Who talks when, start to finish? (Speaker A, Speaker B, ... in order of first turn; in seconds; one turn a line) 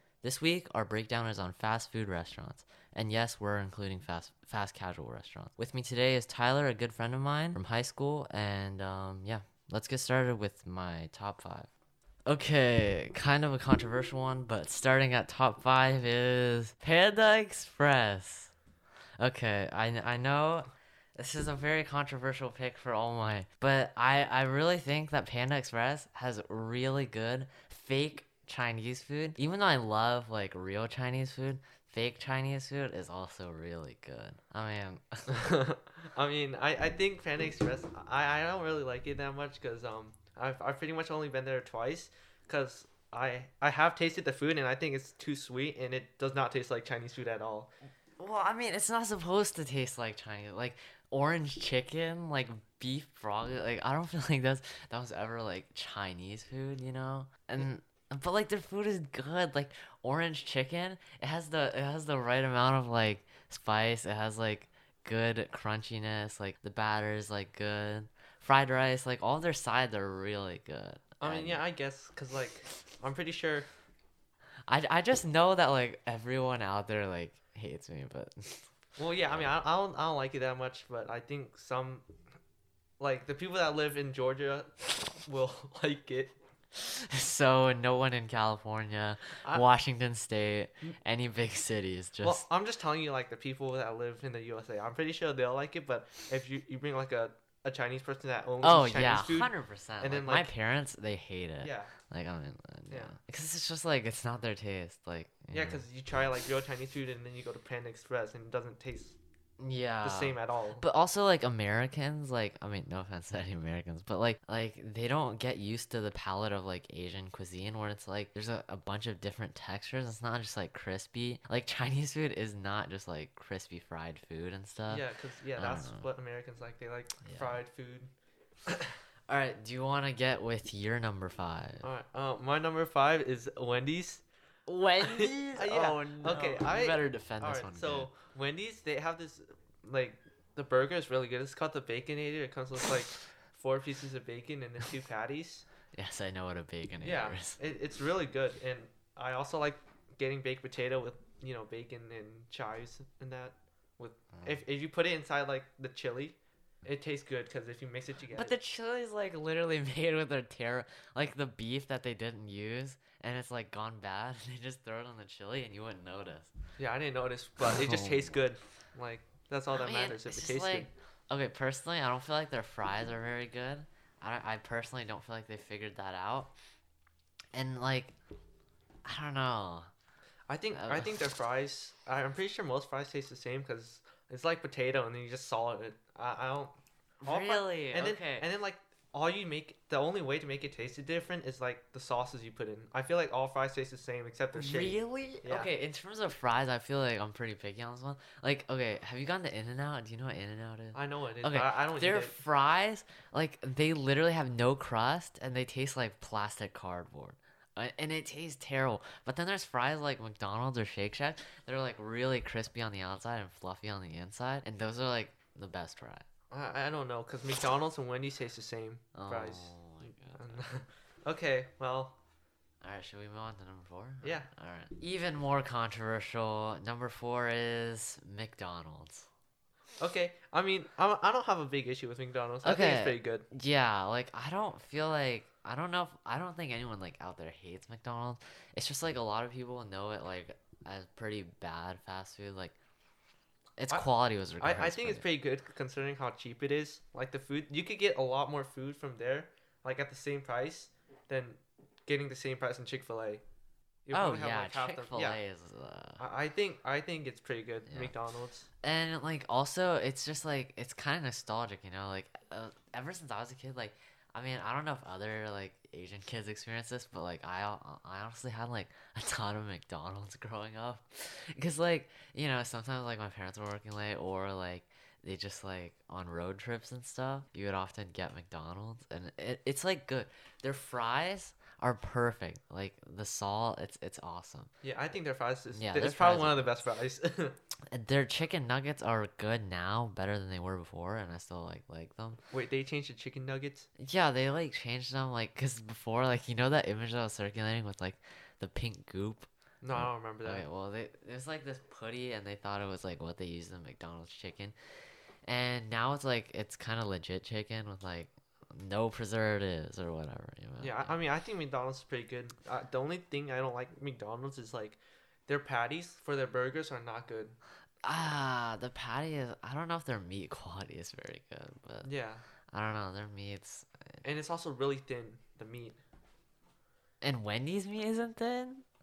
Speaker A: 0.2-11.7
Speaker A: 12.2-18.5
Speaker A: 19.2-35.3
Speaker B: 35.3-47.7
Speaker A: 48.2-71.6
Speaker B: 71.2-73.7
Speaker A: 74.7-78.7
Speaker B: 79.0-82.1
Speaker B: 83.0-86.3
Speaker A: 86.7-92.4
Speaker B: 92.2-100.5
Speaker A: 98.6-105.8
Speaker B: 101.6-101.9
Speaker B: 102.9-103.1
Speaker B: 105.5-109.2
Speaker A: 109.6-125.0
Speaker B: 110.0-110.8
Speaker B: 124.9-128.1
Speaker A: 125.6-126.0
Speaker A: 127.2-127.6
Speaker B: 128.7-128.9
Speaker A: 129.3-131.8
Speaker B: 131.8-134.2
Speaker A: 134.7-138.1
Speaker B: 135.0-145.7
Speaker A: 145.9-147.6
Speaker B: 147.0-158.6
Speaker A: 158.3-166.5
Speaker B: 166.8-170.9
Speaker A: 167.6-168.4
Speaker A: 169.7-176.5
Speaker A: 177.5-178.1
Speaker A: 179.0-179.9
Speaker B: 180.5-186.7
Speaker A: 180.7-181.1
Speaker A: 187.2-188.4
Speaker B: 187.2-195.7
Speaker A: 194.5-216.2
Speaker B: 200.9-202.3
Speaker B: 216.5-219.7
Speaker A: 219.1-220.6
Speaker B: 220.3-222.2
Speaker A: 222.8-229.3
Speaker B: 230.0-233.4
Speaker A: 232.6-242.7
Speaker A: 243.8-245.2
Speaker B: 244.6-253.4
Speaker B: 254.1-255.4
Speaker A: 254.1-256.2
Speaker B: 256.2-258.7
Speaker A: 257.9-258.1
Speaker A: 258.8-284.7
Speaker B: 284.8-287.6
Speaker A: 285.7-286.8
Speaker A: 287.9-292.4
Speaker B: 292.5-293.9
Speaker A: 294.0-304.7
Speaker B: 299.8-300.6
Speaker A: 305.4-311.1
Speaker B: 310.8-317.6
Speaker A: 318.0-322.1
Speaker B: 322.0-322.4
Speaker A: 322.7-324.2
Speaker B: 324.2-326.0
Speaker A: 327.2-328.8